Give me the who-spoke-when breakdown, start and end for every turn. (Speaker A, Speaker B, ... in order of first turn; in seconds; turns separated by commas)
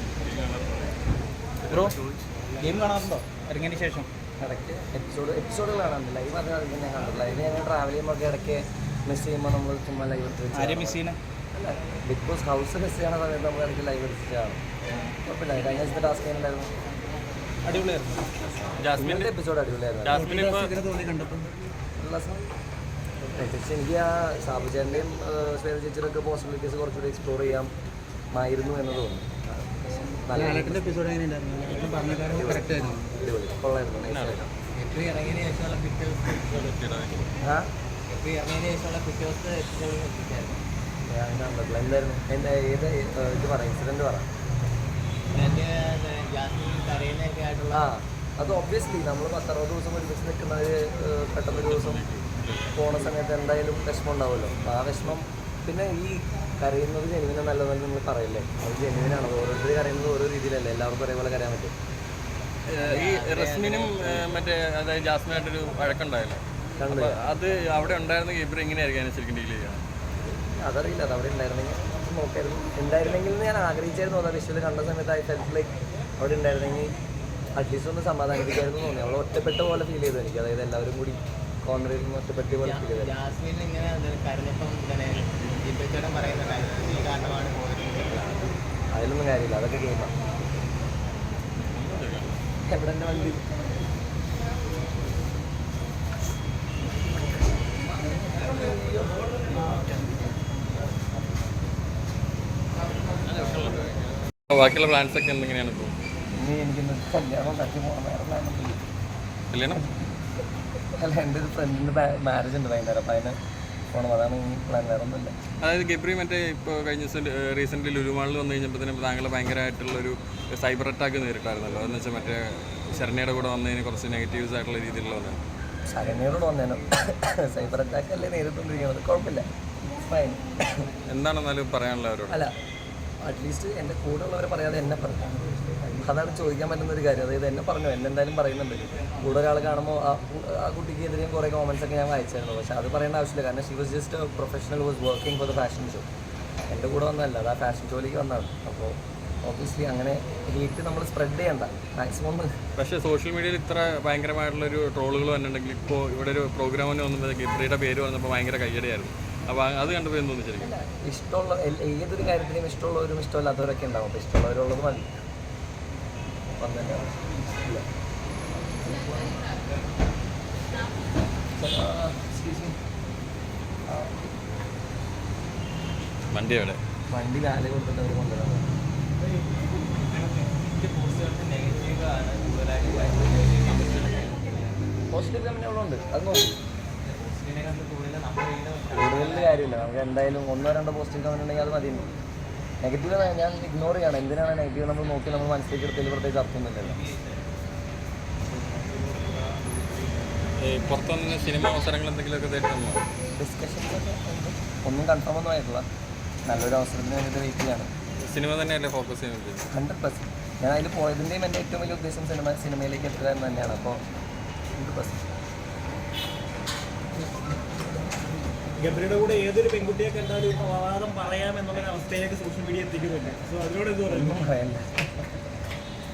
Speaker A: 0.2-1.0, Speaker A: 1.6-2.0, Speaker B: 1.7-2.0, Speaker B: 2.6-4.1, Speaker C: 4.4-14.6, Speaker B: 10.5-11.2, Speaker C: 15.2-16.7, Speaker B: 17.6-18.3, Speaker A: 18.8-19.3, Speaker C: 19.0-20.2, Speaker A: 20.0-20.7, Speaker D: 20.1-20.6, Speaker B: 20.2-21.5, Speaker C: 22.0-22.5, Speaker C: 23.4-27.7, Speaker C: 28.3-31.0, Speaker B: 30.3-33.0, Speaker C: 32.2-34.5, Speaker A: 34.1-34.5, Speaker E: 34.8-36.8, Speaker A: 36.5-37.3, Speaker C: 37.4-37.7, Speaker E: 38.1-40.6, Speaker C: 41.1-44.3, Speaker E: 45.3-47.9, Speaker C: 47.7-52.0, Speaker A: 51.5-53.1, Speaker C: 52.8-61.7, Speaker A: 62.7-69.8, Speaker E: 62.8-64.3, Speaker C: 66.8-67.2, Speaker C: 70.6-76.9, Speaker C: 77.6-83.2, Speaker E: 82.5-88.5, Speaker C: 88.9-90.1, Speaker A: 91.7-92.4, Speaker C: 92.7-93.5, Speaker C: 97.9-100.3, Speaker A: 103.2-106.0, Speaker C: 106.4-108.8, Speaker A: 109.5-109.9, Speaker C: 111.0-113.4, Speaker C: 113.9-115.3, Speaker A: 115.6-125.4, Speaker C: 125.9-130.9, Speaker A: 131.1-132.4, Speaker C: 132.3-132.5, Speaker C: 133.2-146.1, Speaker C: 146.7-152.6, Speaker A: 152.8-160.7, Speaker C: 160.6-165.2, Speaker C: 166.6-167.8, Speaker C: 168.8-169.4, Speaker C: 171.6-172.8, Speaker C: 173.9-174.3, Speaker A: 176.3-176.8, Speaker C: 177.1-178.7, Speaker E: 180.0-185.0, Speaker C: 185.1-186.6, Speaker E: 187.0-189.9, Speaker C: 188.9-192.1, Speaker C: 192.8-197.0, Speaker E: 196.8-197.3, Speaker A: 200.6-203.1, Speaker C: 203.3-205.8, Speaker C: 206.5-207.9, Speaker A: 208.2-209.7, Speaker C: 209.7-214.0, Speaker C: 214.8-215.2, Speaker D: 218.8-224.4, Speaker C: 224.1-225.3